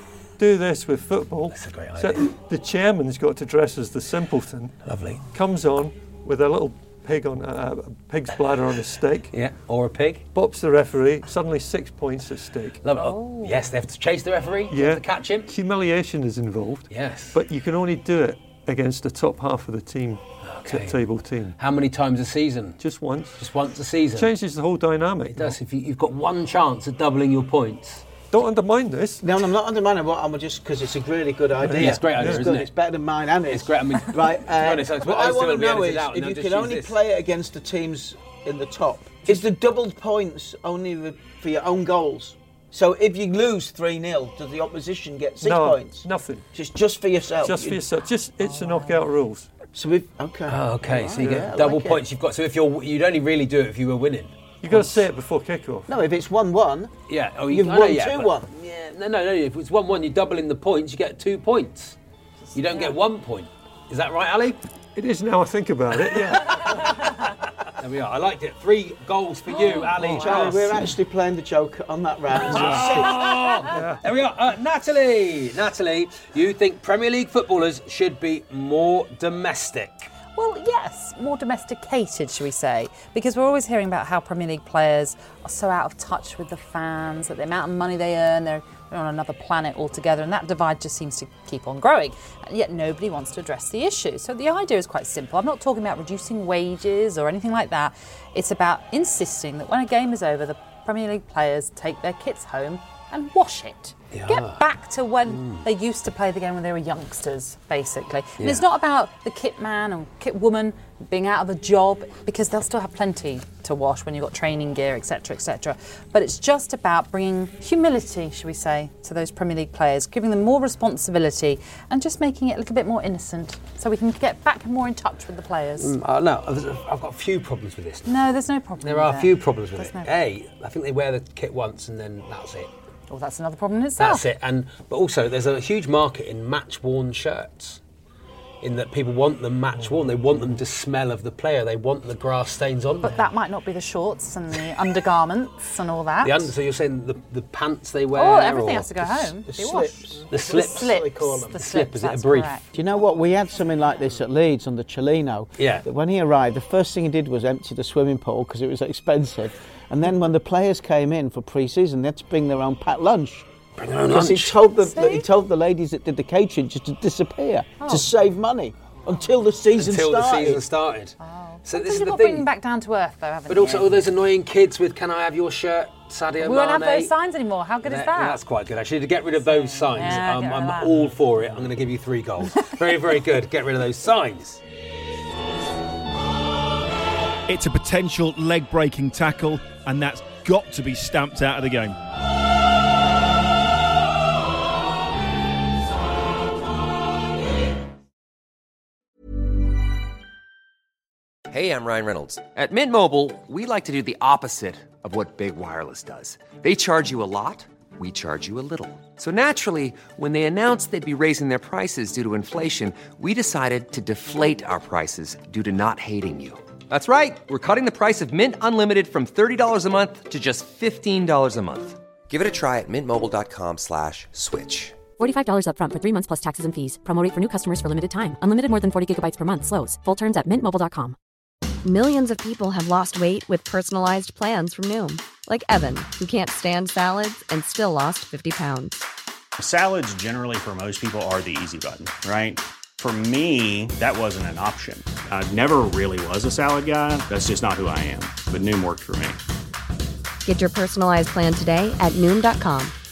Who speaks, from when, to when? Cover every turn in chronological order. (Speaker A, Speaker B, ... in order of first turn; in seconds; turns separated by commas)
Speaker A: 0.4-9.3, Speaker B: 1.5-2.4, Speaker B: 4.8-5.2, Speaker B: 9.3-10.3, Speaker A: 10.3-12.8, Speaker B: 12.8-15.5, Speaker A: 14.7-21.6, Speaker B: 16.9-17.4, Speaker B: 20.4-21.0, Speaker B: 21.6-22.8, Speaker A: 22.8-23.4, Speaker B: 23.4-24.3, Speaker A: 24.1-25.6, Speaker B: 25.3-28.1, Speaker A: 28.3-29.2, Speaker C: 29.2-47.8, Speaker A: 31.6-32.4, Speaker B: 31.7-32.7, Speaker B: 33.5-37.0, Speaker A: 45.4-46.4, Speaker A: 47.4-49.5, Speaker D: 48.4-49.0, Speaker C: 49.7-52.0, Speaker B: 50.5-55.0, Speaker A: 51.2-51.5, Speaker A: 54.6-55.9, Speaker C: 55.9-56.9, Speaker B: 57.1-62.0, Speaker C: 57.5-58.5, Speaker B: 62.5-64.6, Speaker A: 65.0-66.9, Speaker B: 67.8-70.8, Speaker A: 70.0-70.4, Speaker C: 70.1-73.2, Speaker B: 72.5-80.1, Speaker A: 72.6-73.0, Speaker A: 73.7-74.0, Speaker D: 80.3-126.0, Speaker B: 104.1-104.6, Speaker B: 105.3-105.7, Speaker B: 108.4-108.7, Speaker B: 125.8-128.1, Speaker D: 128.1-130.1, Speaker B: 128.8-132.7, Speaker D: 133.1-134.3, Speaker B: 134.0-137.8, Speaker B: 138.6-143.3, Speaker D: 143.0-146.5, Speaker B: 146.2-149.3, Speaker D: 148.1-152.7, Speaker C: 149.4-151.6, Speaker B: 150.3-152.5, Speaker C: 152.7-163.5, Speaker B: 155.6-155.8, Speaker B: 163.8-164.6, Speaker C: 164.1-170.6, Speaker D: 164.8-165.3, Speaker D: 167.8-168.1, Speaker B: 169.8-172.5, Speaker D: 171.2-174.0, Speaker B: 173.5-177.1, Speaker D: 176.4-178.4, Speaker B: 177.8-184.6, Speaker D: 179.4-181.1, Speaker E: 187.5-192.0, Speaker F: 201.5-225.0, Speaker G: 225.2-231.2, Speaker H: 231.8-239.1, Speaker I: 239.6-249.4, Speaker H: 250.4-252.9